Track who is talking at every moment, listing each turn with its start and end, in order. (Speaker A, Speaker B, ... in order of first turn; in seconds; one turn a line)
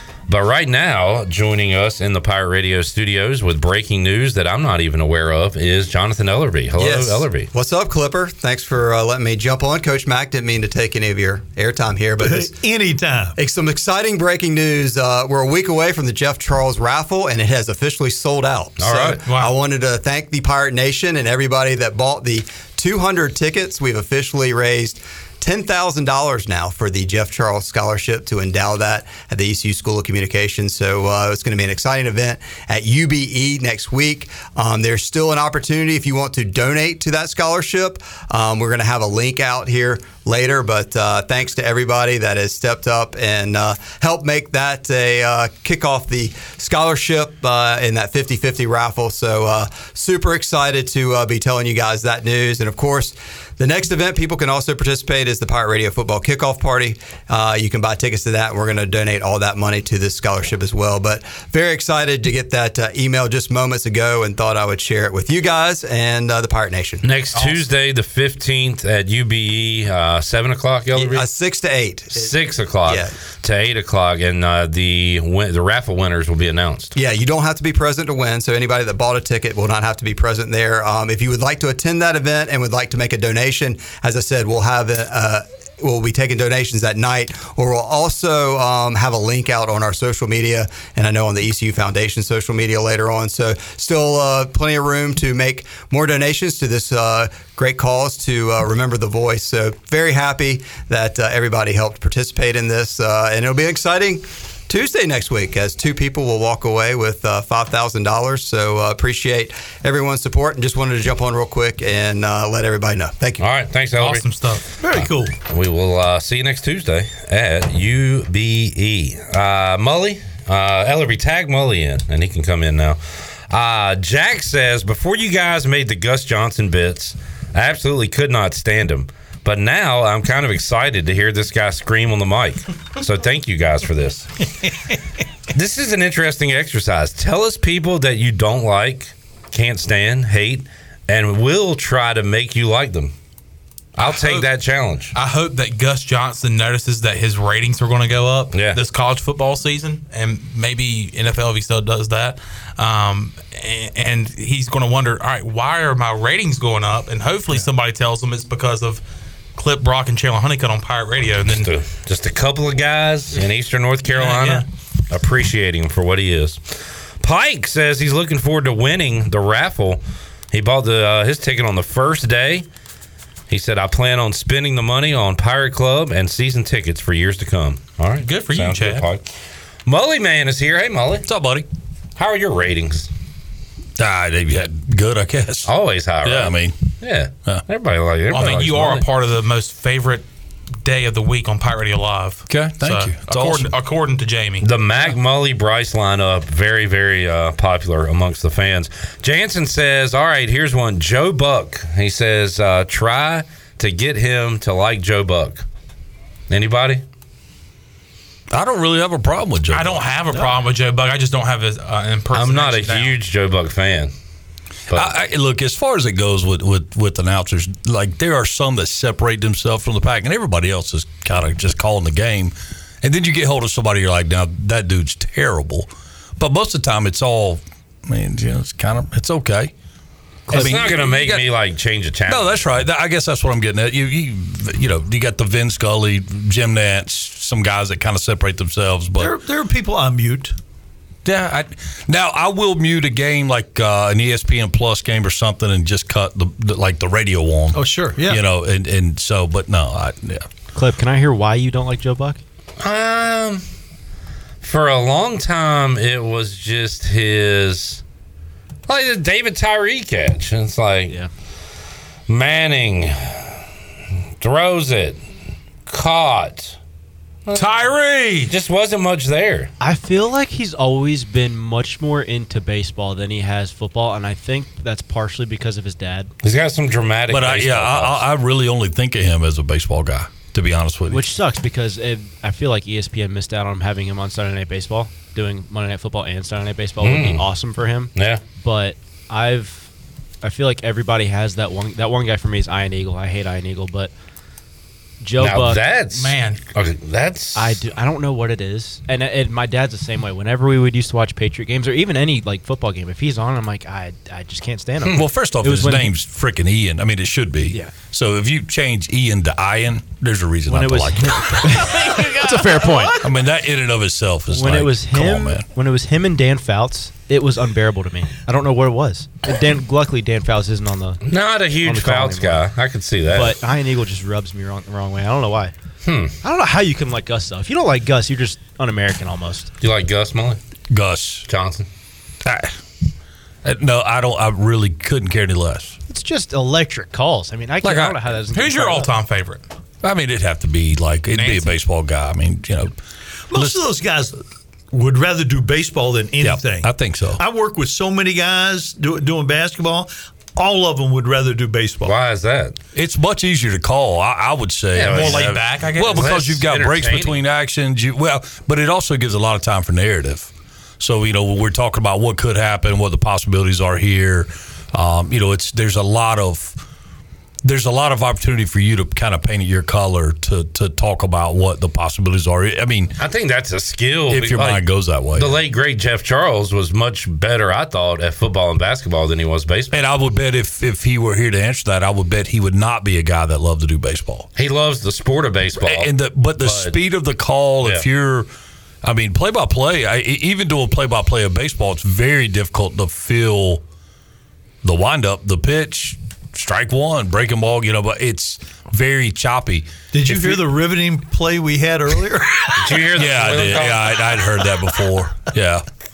Speaker A: 0.3-7.5
Speaker B: 6.8-12.5
Speaker C: 12.2-13.4
Speaker B: 13.4-67.0
Speaker A: 18.8-19.3
Speaker D: 19.2-19.5
Speaker A: 67.0-71.3
Speaker D: 67.3-67.6
Speaker B: 70.9-73.1
Speaker A: 72.1-76.9
Speaker B: 76.9-113.5
Speaker A: 113.4-114.2
Speaker D: 114.0-114.6
Speaker C: 114.8-115.3
Speaker A: 114.8-134.3
Speaker A: 135.5-143.1
Speaker A: 144.0-145.1
Speaker D: 144.1-144.5
Speaker D: 145.1-159.0
Speaker A: 148.5-148.8
Speaker D: 159.6-161.7
Speaker A: 161.5-166.6
Speaker D: 164.1-164.6
Speaker A: 167.2-170.0
Speaker A: 170.5-172.7
Speaker A: 173.5-179.2
Speaker D: 178.2-179.1
Speaker A: 179.8-181.3
Speaker E: 181.2-181.7
Speaker A: 182.2-183.1
Speaker E: 184.0-185.7
Speaker A: 185.6-189.0
Speaker E: 186.2-186.8
Speaker D: 188.3-190.2
Speaker D: 190.8-194.7
Speaker E: 192.5-193.7
Speaker A: 194.6-205.6
Speaker A: 206.5-207.0
Speaker E: 208.5-210.1
Speaker D: 209.7-213.2
Speaker A: 212.3-214.1
Speaker E: 214.9-229.7
Speaker E: 230.5-231.5
Speaker A: 230.5-232.8
Speaker E: 232.2-239.3
Speaker C: 239.2-240.5
Speaker E: 241.2-250.5
Speaker C: 247.7-248.4
Speaker F: 250.7-252.4
Speaker A: 252.8-253.6
Speaker A: 254.6-258.0
Speaker A: 258.9-261.2
Speaker A: 262.3-263.4
Speaker A: 264.4-265.2
Speaker A: 265.9-266.8
Speaker A: 267.4-267.8
Speaker D: 267.6-268.5
Speaker A: 268.5-269.7
Speaker F: 269.8-276.3
Speaker A: 276.4-278.3
Speaker E: 277.3-281.3
Speaker F: 281.1-289.9
Speaker A: 287.0-287.4
Speaker A: 288.1-288.4
Speaker F: 290.4-294.1
Speaker F: 295.2-295.9
Speaker A: 295.4-297.8
Speaker D: 296.1-296.6
Speaker F: 297.5-306.1
Speaker E: 305.1-312.1
Speaker F: 307.7-308.0
Speaker F: 310.7-313.2
Speaker E: 313.2-315.6
Speaker F: 314.5-321.2
Speaker A: 321.2-323.6
Speaker F: 321.8-322.7
Speaker F: 323.3-325.7
Speaker A: 326.0-326.3
Speaker F: 326.4-329.7
Speaker A: 329.8-330.6
Speaker E: 330.9-331.4
Speaker A: 331.5-331.9
Speaker E: 332.4-332.8
Speaker E: 333.6-336.0
Speaker F: 336.1-339.1
Speaker E: 337.8-338.2
Speaker D: 338.5-339.6
Speaker E: 340.0-342.9
Speaker D: 341.3-341.7
Speaker C: 343.5-344.4
Speaker E: 343.5-343.8
Speaker C: 344.9-352.1
Speaker E: 346.4-347.4
Speaker A: 352.0-352.8
Speaker E: 352.9-366.8
Speaker A: 354.9-357.4
Speaker D: 355.1-356.3
Speaker C: 355.1-355.6
Speaker E: 367.6-373.1
Speaker A: 373.2-380.0
Speaker E: 374.3-375.6
Speaker E: 379.9-384.5
Speaker A: 384.5-387.0
Speaker E: 385.8-388.5
Speaker E: 389.0-393.8
Speaker E: 394.8-400.6
Speaker C: 400.1-403.1
Speaker A: 402.8-404.4
Speaker E: 403.1-405.8